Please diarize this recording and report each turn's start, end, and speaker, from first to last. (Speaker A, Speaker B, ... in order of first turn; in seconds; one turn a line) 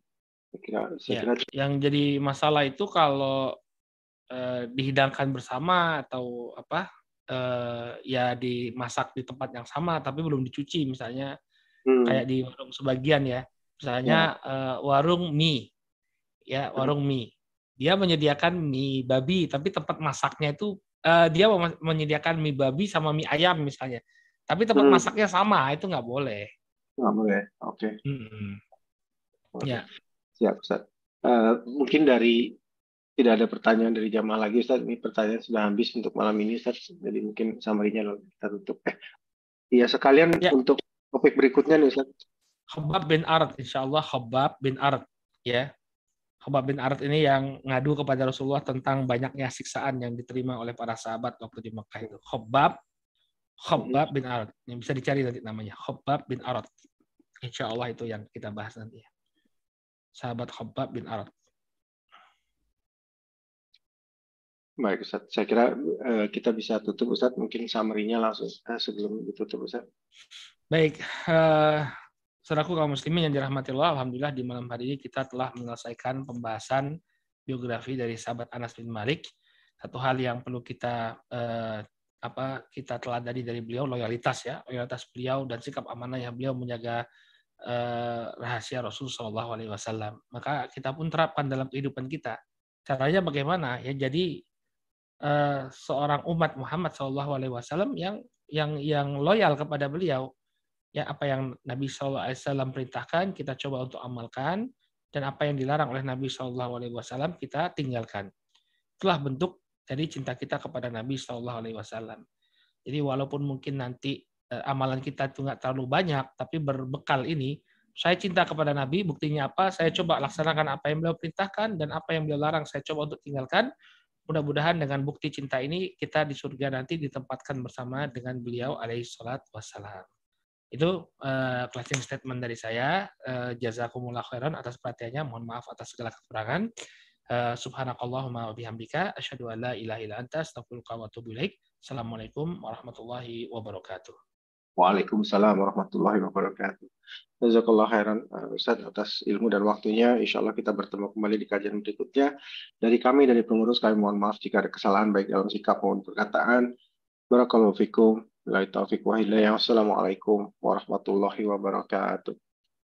Speaker A: 0.5-1.5
Speaker B: 1.1-3.5
Speaker B: 4.3-11.3
Speaker A: 11.9-12.2
Speaker B: 12.1-15.6
Speaker B: 16.5-26.5
Speaker A: 24.8-25.1
Speaker A: 27.0-27.9
Speaker B: 28.1-28.6
Speaker A: 29.6-29.8
Speaker A: 30.4-32.4
Speaker A: 33.2-39.0
Speaker A: 39.7-42.1
Speaker B: 42.7-45.7
Speaker B: 46.4-52.8
Speaker B: 53.6-56.7
Speaker A: 53.8-54.0
Speaker B: 57.4-59.1
Speaker B: 60.2-61.3
Speaker A: 64.8-69.8
Speaker B: 70.7-71.9
Speaker B: 72.5-76.9
Speaker B: 77.5-79.2
Speaker B: 79.8-87.0
Speaker B: 87.7-92.4
Speaker B: 92.9-94.3
Speaker B: 95.3-100.3
Speaker B: 101.0-104.6
Speaker B: 105.1-108.3
Speaker B: 109.0-112.2
Speaker B: 112.9-123.7
Speaker B: 124.3-130.1
Speaker B: 130.7-136.7
Speaker B: 137.3-144.2
Speaker A: 144.8-146.9
Speaker A: 147.4-152.3
Speaker A: 152.8-156.7
Speaker A: 157.3-162.3